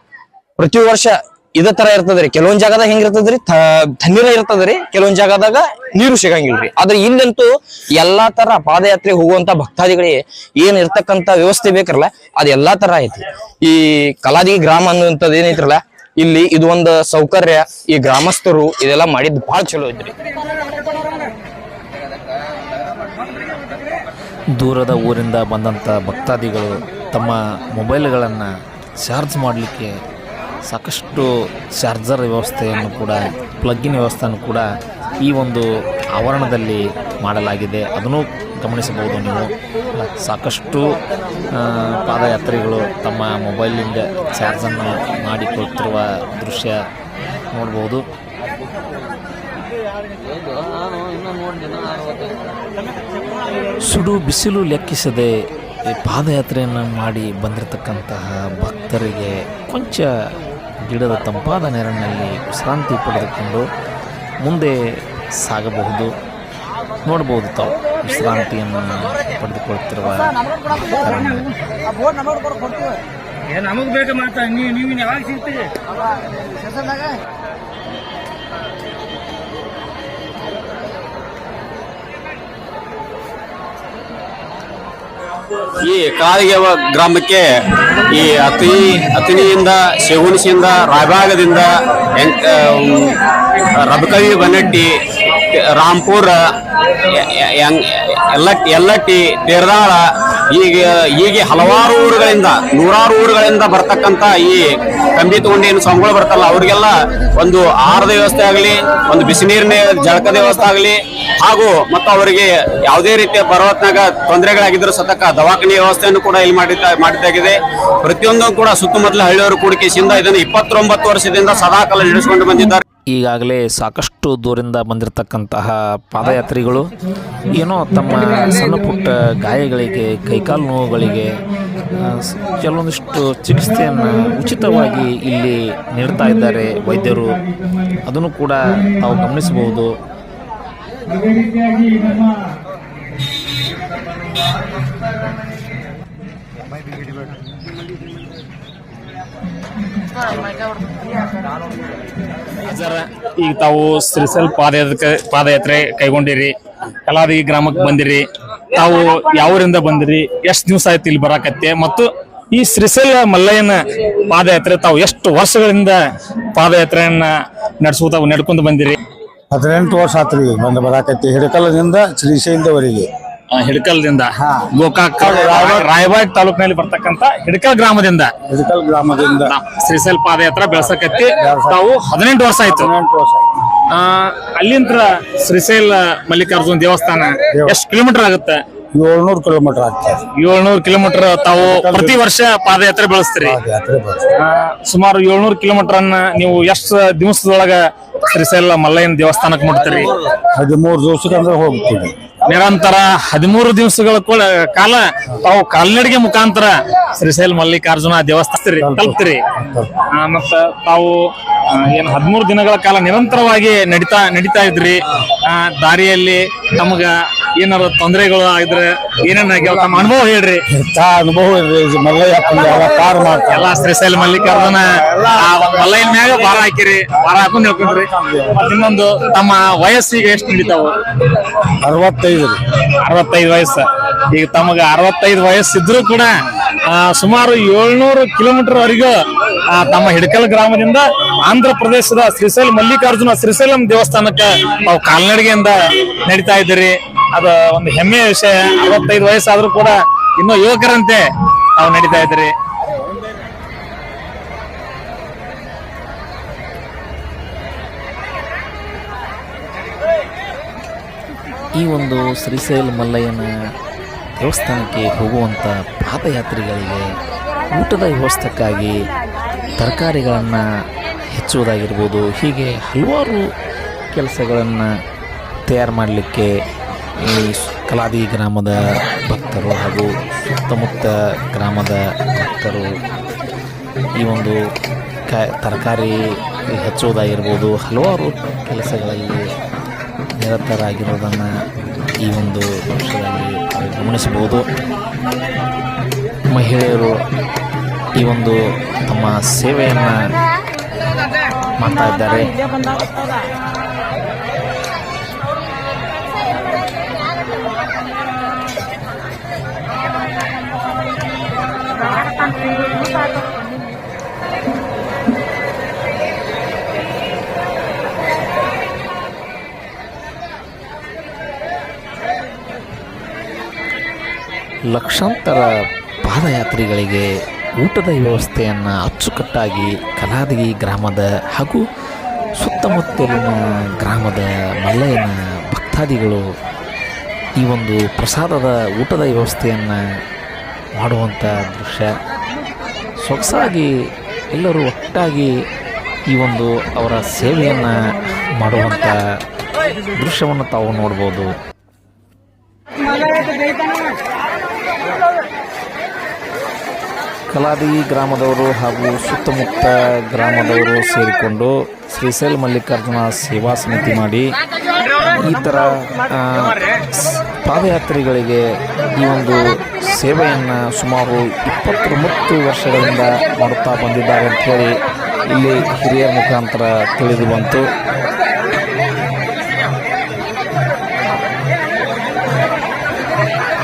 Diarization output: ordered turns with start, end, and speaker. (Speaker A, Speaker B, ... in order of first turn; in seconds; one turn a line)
Speaker A: 0.6-20.1
Speaker B: 24.6-29.9
Speaker B: 30.7-34.7
Speaker B: 35.2-35.6
Speaker B: 36.2-40.9
Speaker B: 41.5-46.8
Speaker B: 47.5-48.0
Speaker B: 53.8-55.3
Speaker B: 55.9-60.1
Speaker B: 60.9-63.7
Speaker B: 64.4-64.8
Speaker B: 65.4-66.1
Speaker B: 67.0-71.5
Speaker C: 85.8-87.5
Speaker C: 88.1-93.2
Speaker C: 93.8-94.9
Speaker C: 95.8-96.4
Speaker C: 97.1-97.8
Speaker C: 98.3-104.6
Speaker C: 105.2-122.8
Speaker B: 123.1-126.9
Speaker B: 127.5-139.9
Speaker D: 152.7-156.6
Speaker D: 157.1-163.8
Speaker D: 164.3-166.0
Speaker D: 166.5-167.3
Speaker D: 167.8-169.0
Speaker E: 169.5-173.1
Speaker D: 173.5-178.3
Speaker E: 175.2-175.9
Speaker E: 178.5-179.5
Speaker D: 179.5-182.9
Speaker E: 181.4-181.8
Speaker E: 182.7-183.5
Speaker D: 183.9-188.6
Speaker E: 188.9-190.2
Speaker D: 190.4-193.6
Speaker E: 191.6-192.2
Speaker E: 193.4-194.2
Speaker D: 194.4-200.1
Speaker E: 200.6-202.1
Speaker D: 202.5-209.4
Speaker E: 208.8-209.2
Speaker D: 210.1-211.1
Speaker D: 211.7-220.6
Speaker E: 220.8-223.8
Speaker D: 223.5-231.0
Speaker E: 231.8-232.6
Speaker D: 233.0-236.3
Speaker D: 236.8-239.2
Speaker D: 239.7-245.7
Speaker D: 246.3-251.2
Speaker D: 251.8-252.5
Speaker B: 261.7-263.5
Speaker B: 264.4-267.2
Speaker B: 267.7-269.1
Speaker B: 269.8-270.6
Speaker B: 271.3-273.5
Speaker B: 274.1-274.9
Speaker B: 275.7-276.5
Speaker B: 277.2-280.1
Speaker B: 280.6-282.9
Speaker B: 284.2-284.6
Speaker B: 285.3-289.5
Speaker B: 290.4-291.5
Speaker B: 292.2-294.6
Speaker B: 296.5-297.2
Speaker B: 298.2-300.1
Speaker B: 301.8-302.6
Speaker B: 324.9-325.7
Speaker B: 326.2-327.3
Speaker B: 327.8-331.8
Speaker B: 332.6-336.4
Speaker B: 337.6-340.0
Speaker B: 341.0-342.1
Speaker B: 343.2-343.9
Speaker B: 344.5-345.5
Speaker B: 346.3-348.0
Speaker B: 348.6-349.2
Speaker B: 350.1-351.5
Speaker B: 357.5-364.5
Speaker B: 365.3-368.6
Speaker B: 369.2-377.9